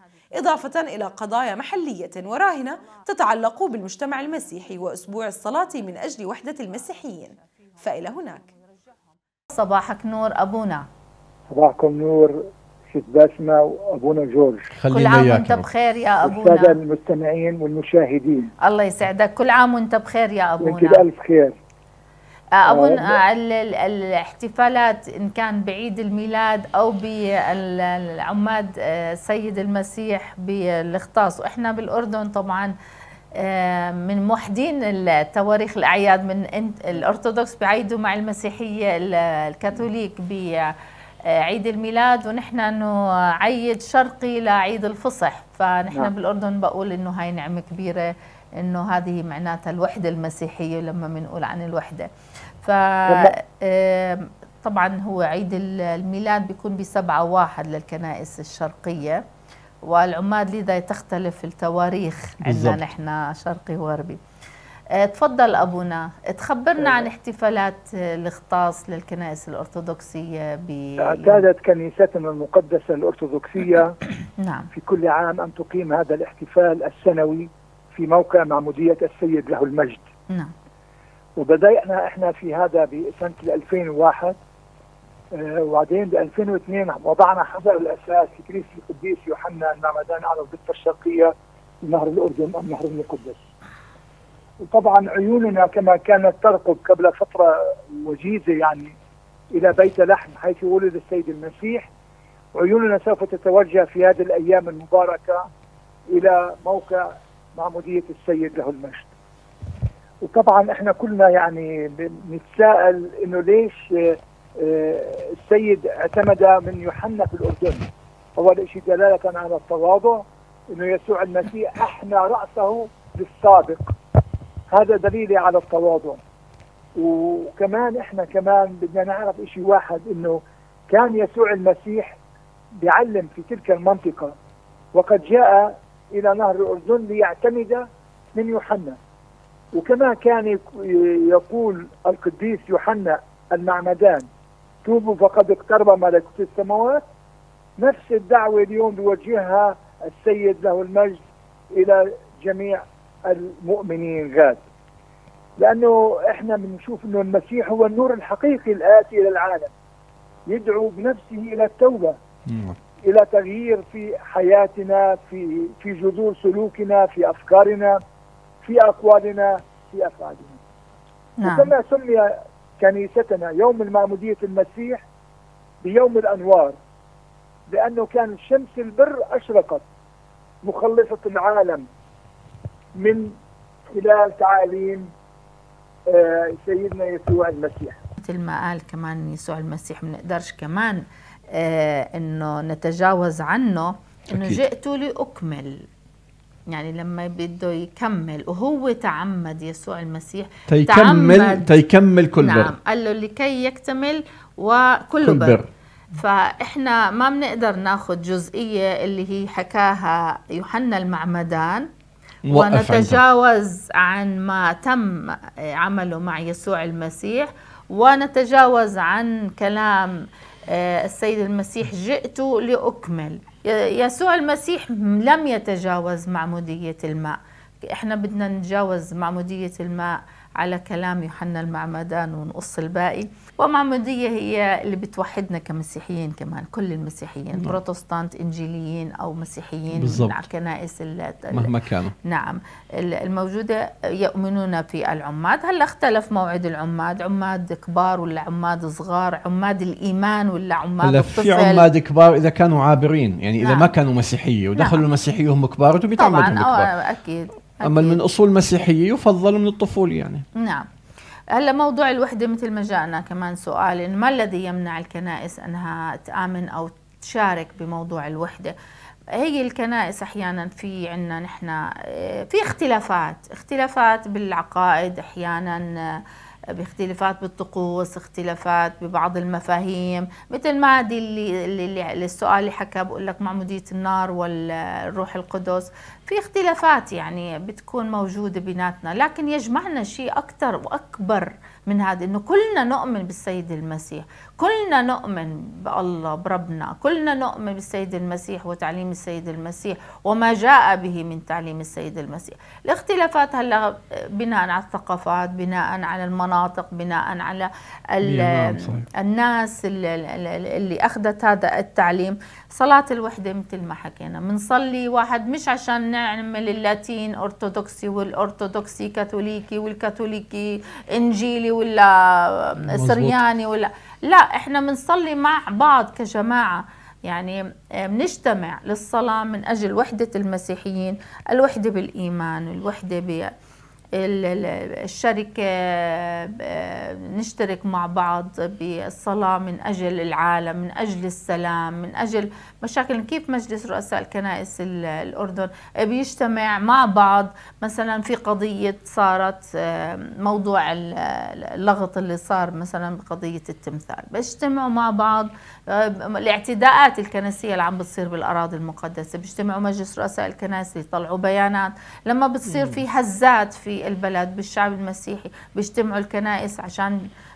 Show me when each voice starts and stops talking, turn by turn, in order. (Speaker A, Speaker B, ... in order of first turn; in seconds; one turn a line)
Speaker A: 0.3-8.5
Speaker B: 9.5-10.9
Speaker C: 11.5-14.7
Speaker D: 14.7-15.7
Speaker B: 14.9-16.8
Speaker C: 16.2-18.5
Speaker B: 18.6-21.0
Speaker C: 20.6-21.6
Speaker B: 22.6-32.7
Speaker C: 22.7-23.2
Speaker B: 33.4-40.7
Speaker B: 41.3-52.1
Speaker B: 52.6-59.2
Speaker C: 53.1-53.3
Speaker B: 59.9-64.2
Speaker D: 62.4-62.8
Speaker B: 65.0-71.4
Speaker C: 66.8-67.1
Speaker C: 71.0-74.0
Speaker B: 74.4-74.7
Speaker C: 74.7-80.0
Speaker C: 81.4-84.4
Speaker C: 85.3-93.4
Speaker C: 94.6-99.0
Speaker C: 99.5-101.9
Speaker C: 102.5-105.5
Speaker C: 106.1-109.1
Speaker C: 110.2-123.9
Speaker C: 124.7-126.2
Speaker C: 127.0-132.2
Speaker C: 132.8-134.3
Speaker C: 134.9-139.0
Speaker C: 139.7-144.3
Speaker C: 144.8-147.0
Speaker C: 147.8-151.2
Speaker C: 151.7-154.6
Speaker C: 155.6-159.7
Speaker C: 160.5-162.2
Speaker D: 162.5-162.8
Speaker C: 163.0-168.0
Speaker C: 168.6-170.6
Speaker B: 171.4-171.7
Speaker C: 171.4-175.0
Speaker C: 175.8-176.8
Speaker C: 177.7-179.8
Speaker C: 180.6-181.9
Speaker C: 183.0-183.3
Speaker C: 183.9-185.1
Speaker C: 186.1-188.0
Speaker B: 188.2-195.8
Speaker D: 194.3-194.6
Speaker B: 196.7-201.7
Speaker D: 200.7-202.7
Speaker B: 202.4-205.6
Speaker D: 205.2-205.7
Speaker B: 206.1-211.9
Speaker D: 212.5-213.2
Speaker B: 212.5-220.1
Speaker B: 220.7-227.4
Speaker B: 227.9-241.7
Speaker D: 239.9-240.4
Speaker D: 241.5-242.1
Speaker B: 242.2-251.9
Speaker D: 251.0-256.9
Speaker B: 253.6-253.9
Speaker B: 254.8-255.0
Speaker B: 256.2-258.2
Speaker D: 257.8-260.4
Speaker B: 260.6-260.9
Speaker B: 261.6-268.7
Speaker B: 269.3-276.2
Speaker B: 276.8-333.5
Speaker D: 308.2-309.1
Speaker D: 322.9-323.4
Speaker B: 334.2-367.2